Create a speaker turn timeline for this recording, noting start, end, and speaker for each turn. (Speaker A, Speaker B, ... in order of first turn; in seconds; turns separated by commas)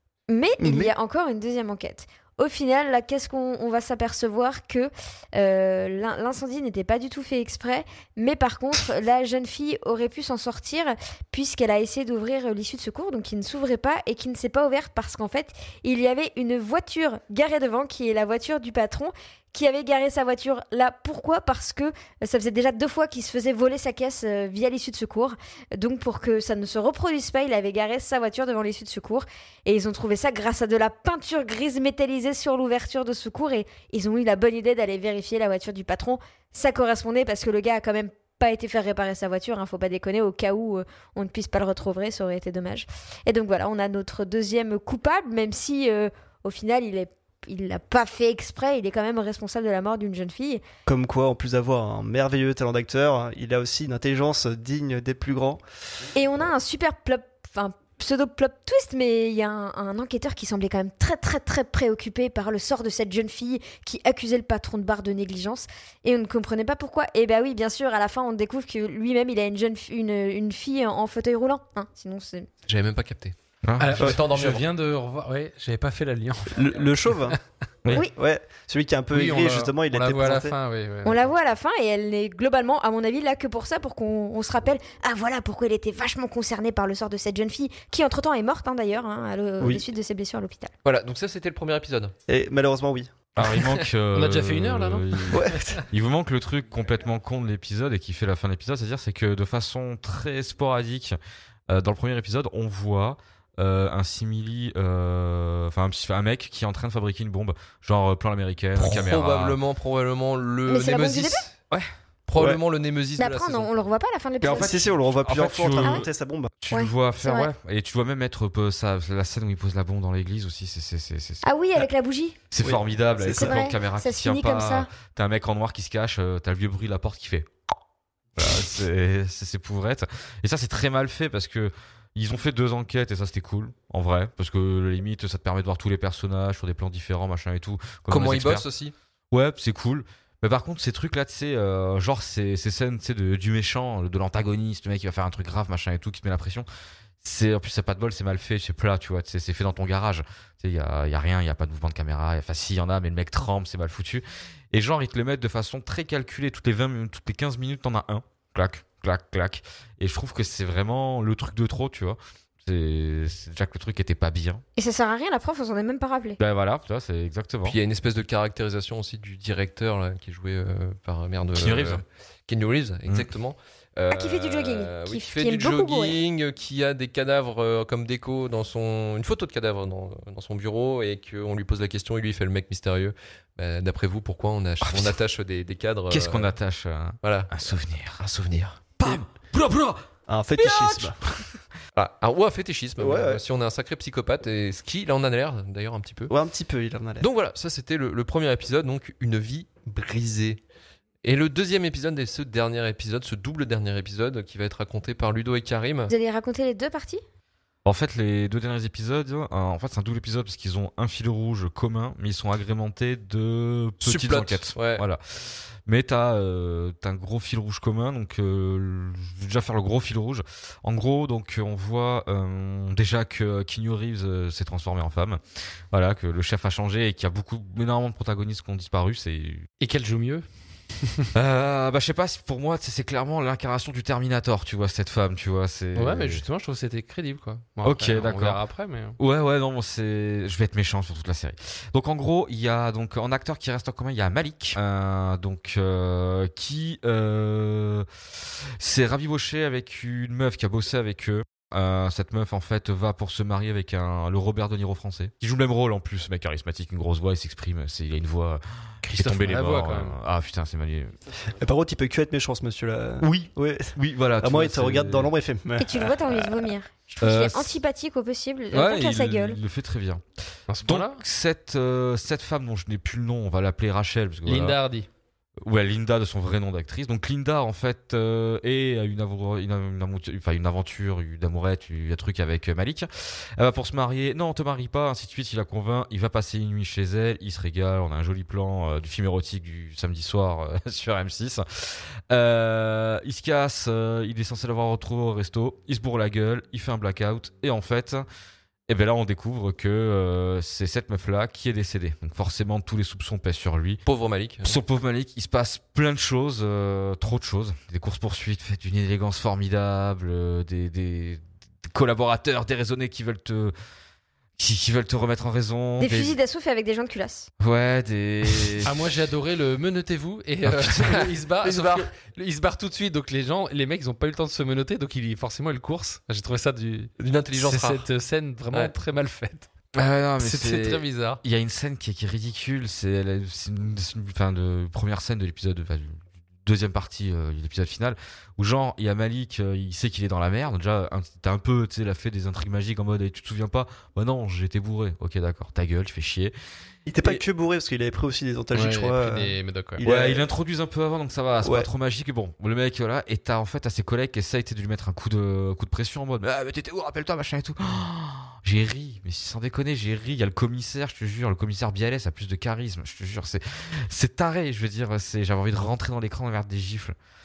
Speaker A: 0.3-50.6, Speaker B: 0.6-0.9, Speaker B: 50.9-55.6, Speaker A: 56.1-72.5, Speaker C: 72.7-73.3, Speaker D: 73.6-74.0, Speaker E: 73.8-77.3, Speaker C: 74.0-74.5, Speaker B: 76.5-77.4, Speaker B: 78.1-80.5, Speaker E: 79.1-81.3, Speaker A: 81.0-90.7, Speaker B: 89.6-89.9, Speaker C: 90.8-92.1, Speaker B: 92.3-93.2, Speaker E: 93.4-95.8, Speaker D: 93.4-101.2, Speaker B: 95.3-95.8, Speaker D: 101.7-109.6, Speaker C: 108.8-111.5, Speaker A: 110.7-111.4, Speaker C: 112.3-113.7, Speaker B: 112.3-112.6, Speaker A: 113.2-114.9, Speaker B: 114.4-116.5, Speaker D: 114.5-116.1, Speaker D: 116.6-121.4, Speaker A: 116.7-117.5, Speaker A: 121.4-122.4, Speaker D: 122.5-127.5, Speaker B: 122.6-123.6, Speaker A: 123.3-124.9, Speaker D: 128.4-138.7, Speaker C: 138.1-138.9, Speaker D: 139.3-146.7, Speaker D: 147.2-164.6, Speaker A: 164.8-166.4, Speaker D: 166.4-167.8, Speaker C: 167.6-186.5, Speaker D: 171.5-172.0, Speaker A: 174.1-176.1, Speaker D: 184.8-185.2, Speaker D: 186.1-188.3, Speaker C: 187.2-188.8, Speaker D: 189.0-191.6, Speaker B: 190.3-191.2, Speaker C: 191.9-196.3, Speaker B: 193.0-193.4, Speaker B: 196.3-197.3, Speaker C: 197.2-200.6, Speaker C: 201.2-206.1, Speaker A: 206.1-207.2, Speaker D: 207.8-229.7, Speaker C: 214.0-215.0, Speaker E: 229.8-231.3, Speaker D: 231.3-236.4, Speaker E: 235.9-239.2, Speaker D: 237.8-238.6, Speaker D: 239.2-248.1, Speaker D: 248.8-261.1, Speaker E: 259.0-260.1, Speaker B: 261.6-266.5, Speaker D: 263.2-265.3, Speaker A: 265.8-269.6, Speaker D: 267.2-267.7, Speaker D: 268.7-270.2, Speaker E: 270.7-271.2, Speaker D: 270.8-274.8, Speaker E: 274.4-275.1, Speaker D: 275.6-298.2, Speaker D: 298.9-304.0, Speaker C: 304.0-304.8, Speaker D: 304.6-313.7, Speaker D: 314.6-316.4, Speaker A: 316.0-317.5, Speaker D: 317.6-319.0, Speaker E: 318.8-329.7, Speaker D: 320.6-322.0, Speaker C: 321.6-322.0, Speaker C: 327.2-328.1, Speaker D: 329.9-346.5, Speaker E: 330.4-331.4, Speaker B: 347.1-350.4, Speaker E: 348.7-350.0, Speaker D: 350.0-367.1, Speaker B: 351.6-351.9